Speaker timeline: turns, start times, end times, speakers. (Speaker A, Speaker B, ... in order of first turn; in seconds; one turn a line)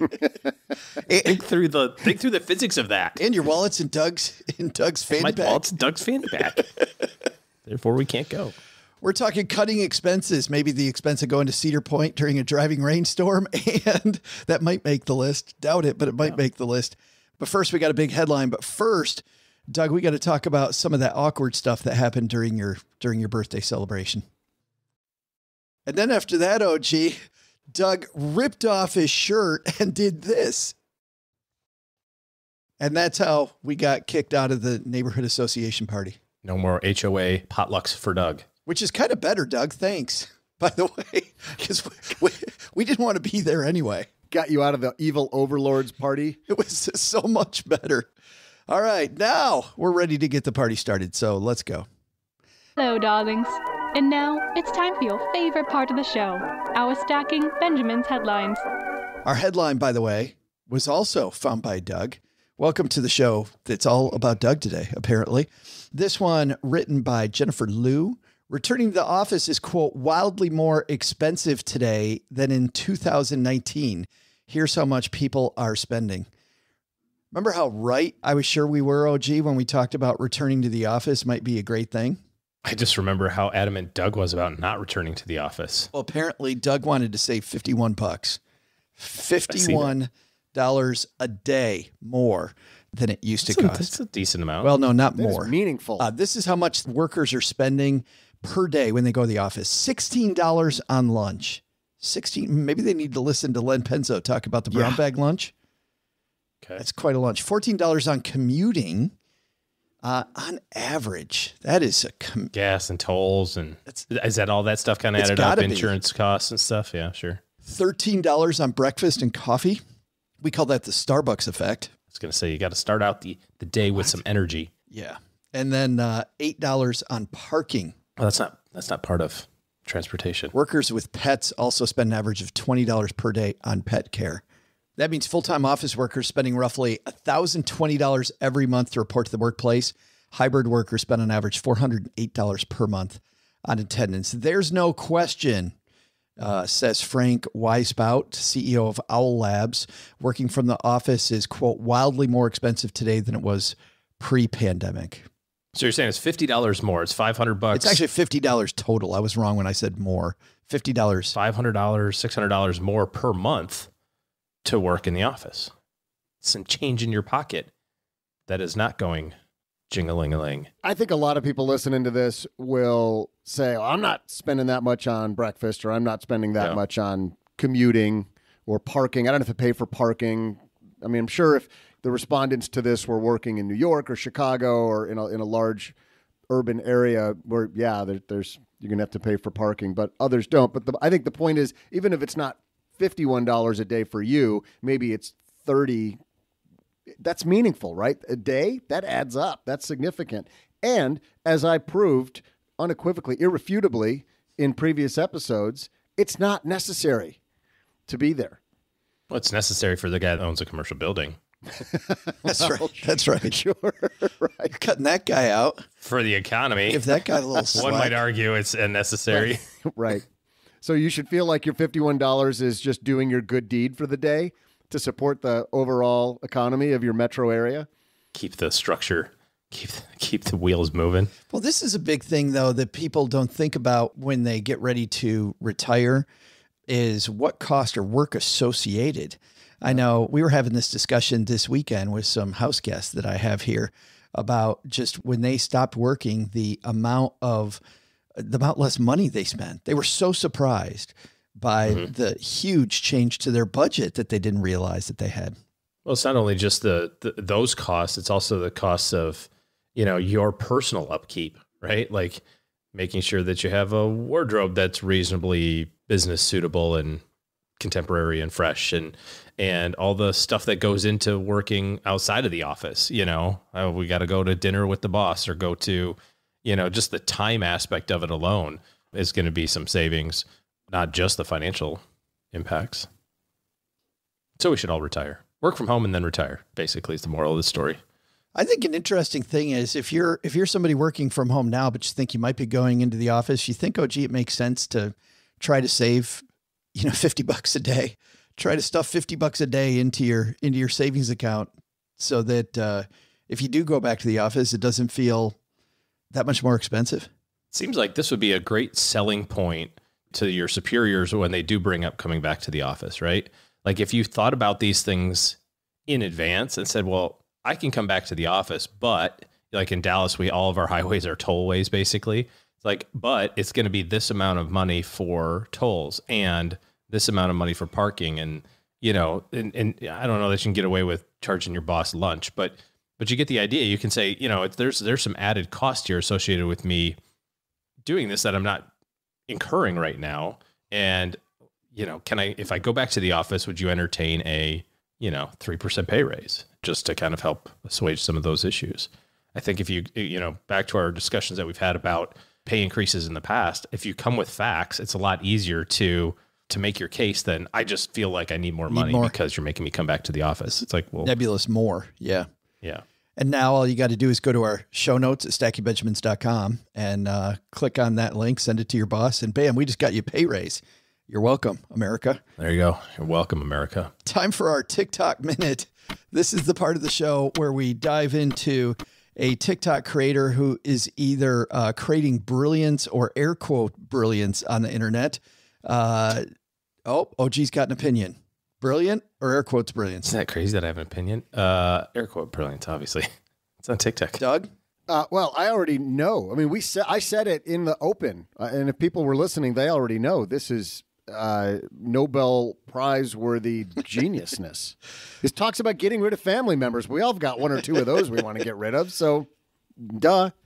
Speaker A: 1.1-1.4
Speaker B: 1.2-3.2
Speaker A: 3.2-5.6
Speaker B: 5.1-6.6
Speaker B: 7.6-8.5
Speaker A: 9.0-24.2
Speaker A: 25.9-27.2
Speaker A: 27.7-30.7
Speaker A: 32.8-36.2
Speaker B: 36.4-38.4
Speaker A: 38.6-44.1
Speaker C: 44.3-46.4
Speaker A: 46.5-48.1
Speaker A: 48.7-51.9
Speaker D: 52.8-58.6
Speaker A: 59.2-76.3
Speaker A: 77.3-82.2
Speaker B: 82.6-85.9
Speaker A: 85.9-88.4
Speaker A: 89.0-93.9
Speaker B: 89.5-89.9
Speaker B: 93.5-94.7
Speaker A: 94.6-105.5
Speaker C: 95.2-96.1
Speaker A: 106.8-109.1
Speaker A: 110.0-112.5
Speaker B: 112.5-117.4
Speaker A: 115.2-115.9
Speaker A: 117.6-119.8
Speaker A: 120.4-121.9
Speaker B: 122.1-124.7
Speaker A: 124.9-127.9
Speaker B: 128.2-130.5
Speaker A: 130.5-134.4
Speaker A: 135.0-145.7
Speaker A: 146.4-155.2
Speaker B: 155.7-158.0
Speaker A: 157.7-161.3
Speaker B: 161.3-163.9
Speaker B: 164.6-165.7
Speaker B: 166.4-167.7
Speaker B: 168.5-169.3
Speaker B: 169.9-170.7
Speaker C: 170.8-185.9
Speaker C: 186.5-196.2
Speaker C: 197.2-207.4
Speaker C: 208.1-208.6
Speaker B: 209.3-211.4
Speaker C: 211.8-214.7
Speaker A: 212.4-213.5
Speaker A: 214.7-215.8
Speaker B: 216.0-217.0
Speaker A: 216.9-218.2
Speaker B: 217.7-219.6
Speaker C: 219.3-220.2
Speaker C: 220.8-227.9
Speaker B: 228.3-231.3
Speaker A: 231.5-236.3
Speaker A: 236.9-247.8
Speaker A: 248.3-255.6
Speaker B: 256.1-262.4
Speaker B: 262.9-267.2
Speaker B: 267.8-282.0
Speaker B: 282.5-283.1
Speaker B: 284.6-288.0
Speaker A: 288.5-296.4
Speaker A: 296.9-305.6
Speaker A: 306.3-307.3
Speaker B: 307.7-315.6
Speaker B: 316.1-337.2
Speaker B: 338.0-338.9
Speaker B: 339.5-341.4
Speaker B: 341.9-361.3
Speaker A: 358.9-359.3
Speaker A: 361.2-362.5
Speaker A: 363.4-372.4
Speaker B: 372.6-374.1
Speaker A: 374.2-386.5
Speaker A: 387.1-390.3
Speaker B: 390.2-393.3
Speaker B: 393.8-394.4
Speaker A: 394.4-394.7
Speaker C: 395.1-409.5
Speaker C: 410.0-410.5